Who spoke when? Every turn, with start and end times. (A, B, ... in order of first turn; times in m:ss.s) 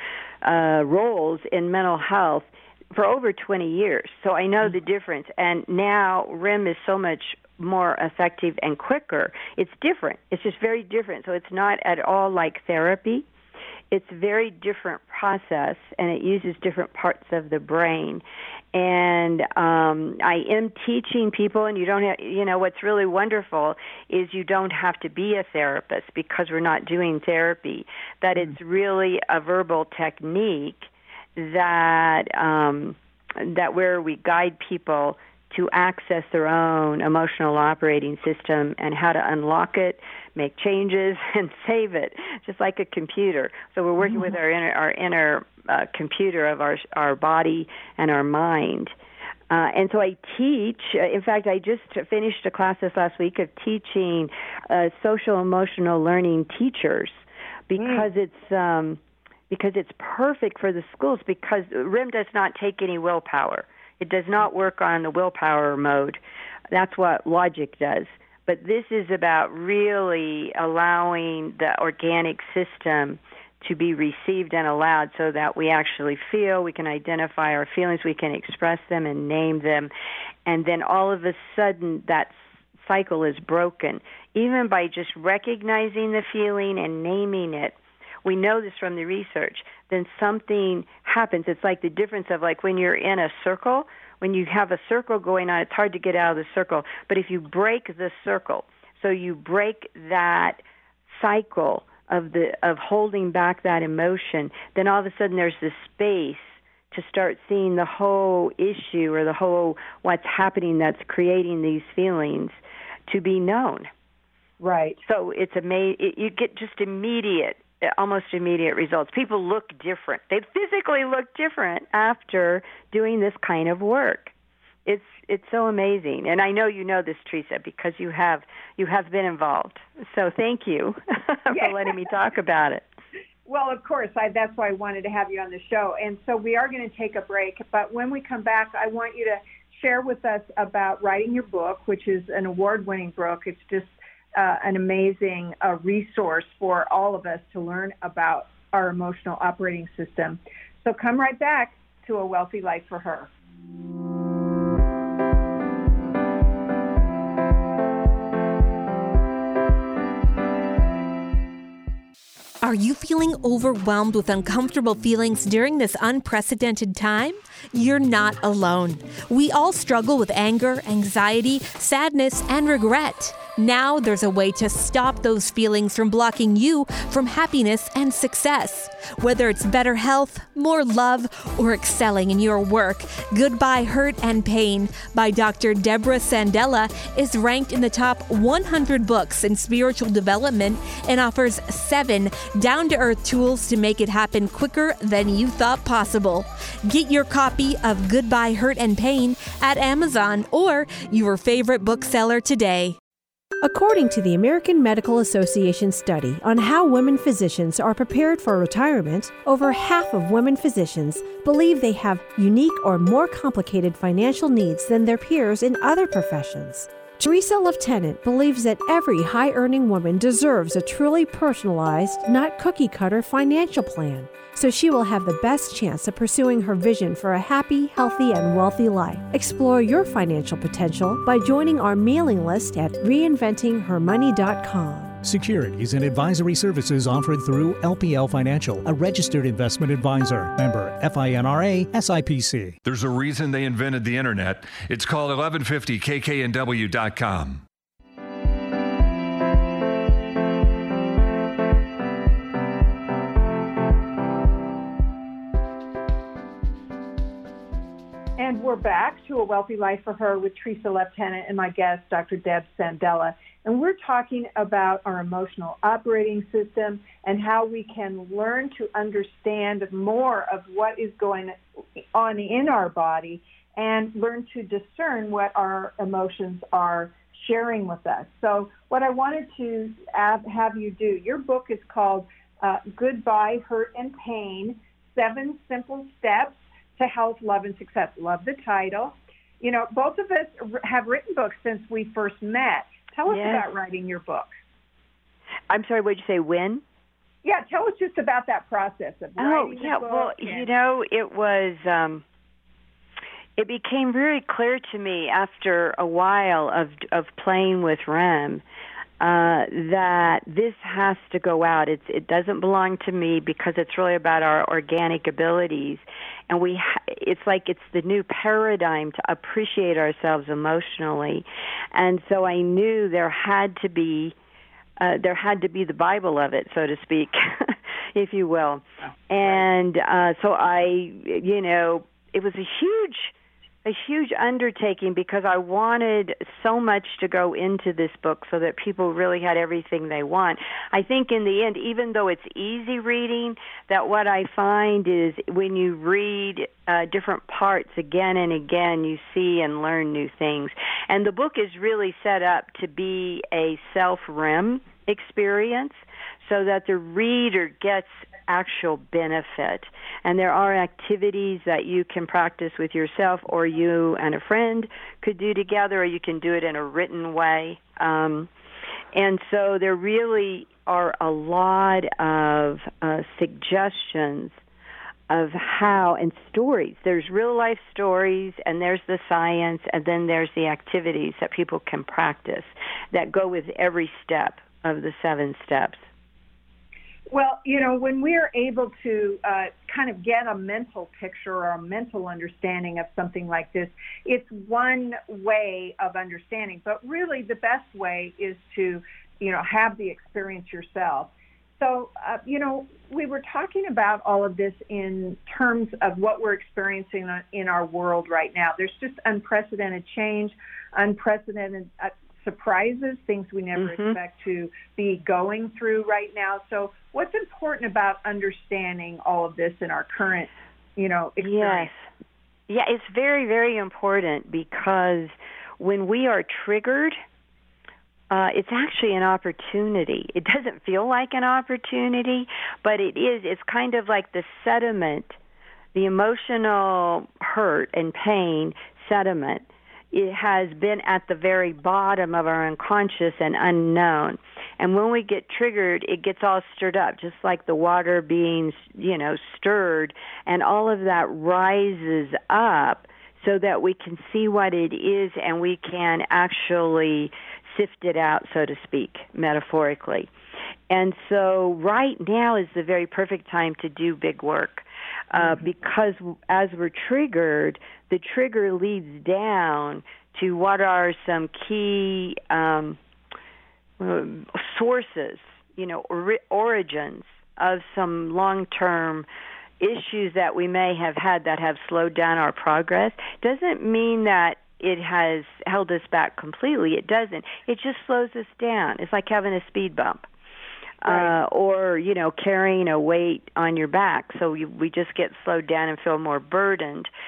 0:00.4-0:13.2 A
0:13.9-0:18.2 A
0:18.7-0:48.9 A
0:49.5-1:06.2 A
0:57.8-0:58.1 B
1:06.7-1:19.9 A
1:20.4-1:53.9 A
1:54.6-1:55.0 B
1:55.0-2:04.3 A
2:04.9-2:12.8 A
2:11.5-2:11.9 B
2:13.5-2:33.3 B
2:42.6-3:23.0 C
3:23.6-3:55.2 D
3:55.2-4:02.8 E
4:02.8-4:07.6 F
4:18.4-4:54.5 B
4:53.3-4:53.7 A
4:55.7-4:56.8 A
4:57.4-5:00.6 B
4:59.4-5:02.2 A
5:03.6-5:08.6 A
5:09.2-5:24.4 A
5:25.0-6:08.5 A
6:09.1-6:14.6 A
6:15.3-6:26.0 A
6:27.3-7:01.9 B
6:53.8-6:54.2 A
7:01.4-7:02.0 A
7:02.7-7:07.2 A
7:08.3-7:15.4 A
7:15.9-7:40.3 A
7:40.9-7:53.0 A
7:45.4-7:45.7 B
7:54.0-7:59.2 A
7:59.8-8:10.3 A
8:11.0-8:17.1 A
8:11.0-8:11.3 B